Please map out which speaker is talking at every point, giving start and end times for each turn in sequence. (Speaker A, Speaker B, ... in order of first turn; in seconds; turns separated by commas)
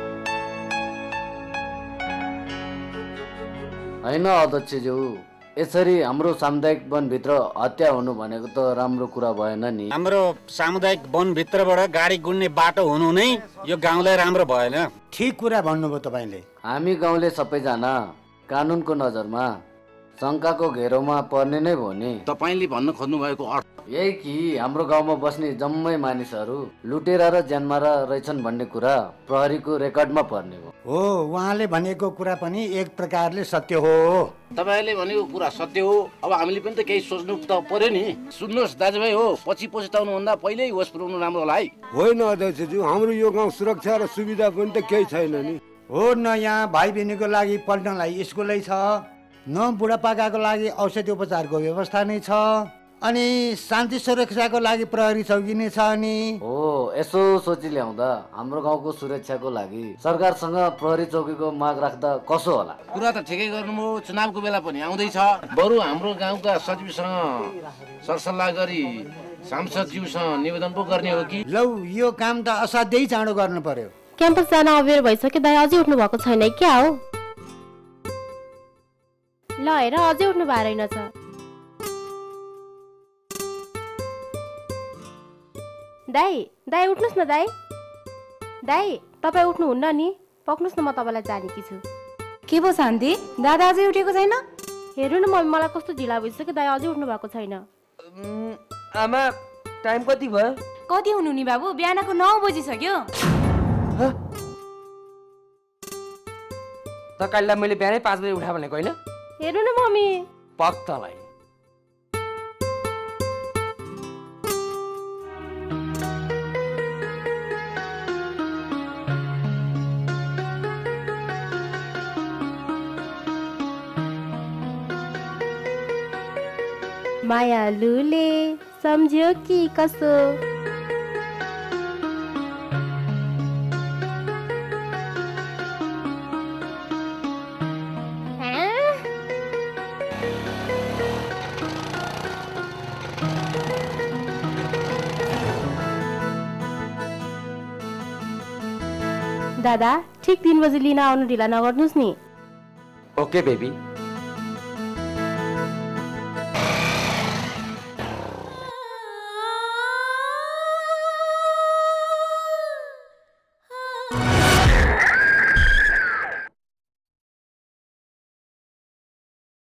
Speaker A: 4.0-5.1, Speaker A: 5.6-9.9, Speaker B: 10.0-13.2, Speaker B: 13.8-14.8, Speaker C: 15.1-16.4, Speaker A: 16.6-17.9, Speaker A: 18.5-19.5, Speaker A: 20.2-22.2, Speaker D: 22.3-23.6, Speaker A: 23.9-30.7, Speaker C: 30.9-34.3, Speaker D: 34.6-41.7, Speaker E: 41.9-45.6, Speaker C: 45.9-48.9, Speaker C: 49.5-56.2, Speaker A: 56.4-62.8, Speaker D: 62.9-67.5, Speaker D: 68.0-71.4, Speaker C: 71.5-73.9, Speaker F: 74.2-77.0, Speaker F: 79.6-81.1, Speaker F: 86.1-87.5, Speaker F: 88.7-91.8, Speaker G: 92.5-94.4, Speaker F: 95.0-97.7, Speaker H: 98.1-100.6, Speaker G: 100.9-103.0, Speaker H: 107.2-109.0, Speaker F: 109.4-110.2, Speaker H: 110.6-111.3, Speaker F: 127.2-130.4, Speaker F: 138.4-139.0, Speaker F: 149.6-152.2, Speaker H: 153.2-153.7